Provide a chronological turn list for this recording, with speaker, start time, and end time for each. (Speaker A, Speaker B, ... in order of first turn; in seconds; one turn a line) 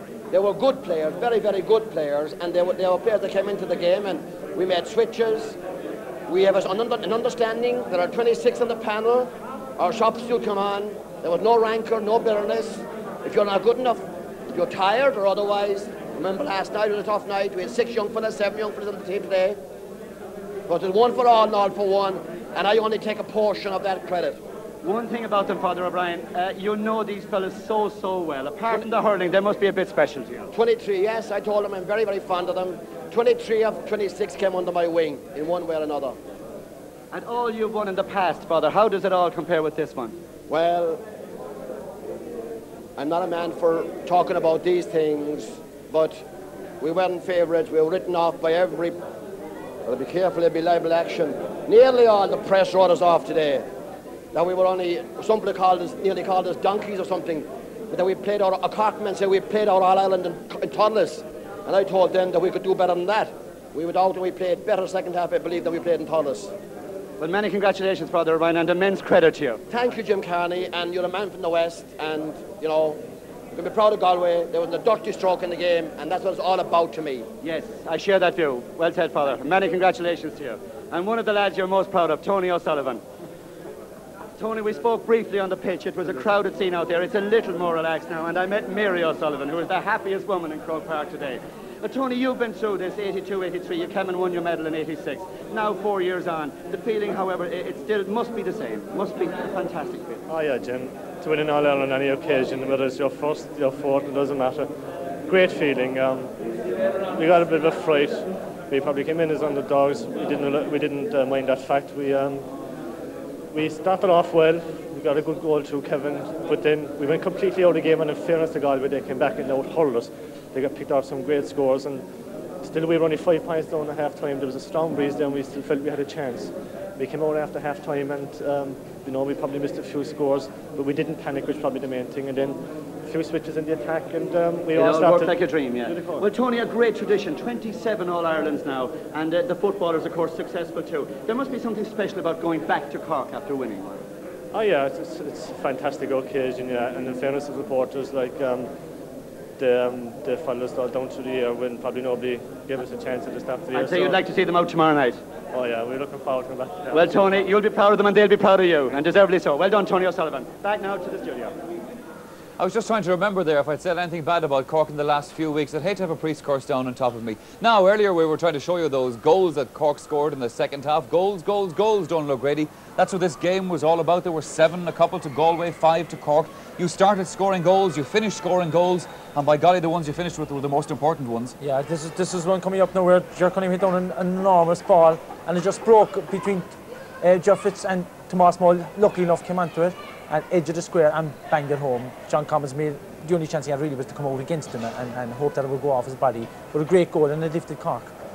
Speaker A: 0.3-5.6
Speaker A: 6.3-19.6
Speaker A: 20.7-24.4
Speaker B: 24.8-30.5
Speaker A: 30.5-36.2
Speaker B: 37.1-40.2
Speaker A: 40.5-41.0
Speaker A: 43.0-46.2
Speaker A: 46.8-49.0
Speaker A: 49.9-53.7
Speaker A: 54.3-66.5
Speaker B: 67.2-69.6
Speaker A: 69.7-73.0
Speaker A: 73.5-77.3
Speaker B: 77.4-83.0
Speaker B: 84.4-100.2
Speaker C: 100.3-104.7
Speaker C: 105.3-106.3
Speaker C: 107.1-112.5
Speaker C: 113.5-122.1
Speaker C: 122.6-136.3
Speaker B: 134.7-144.0
Speaker C: 144.5-148.7
Speaker C: 149.6-154.2
Speaker B: 153.7-155.2
Speaker C: 155.5-157.5
Speaker B: 156.9-161.6
Speaker D: 162.6-181.6
Speaker E: 181.6-186.7
Speaker E: 187.2-198.1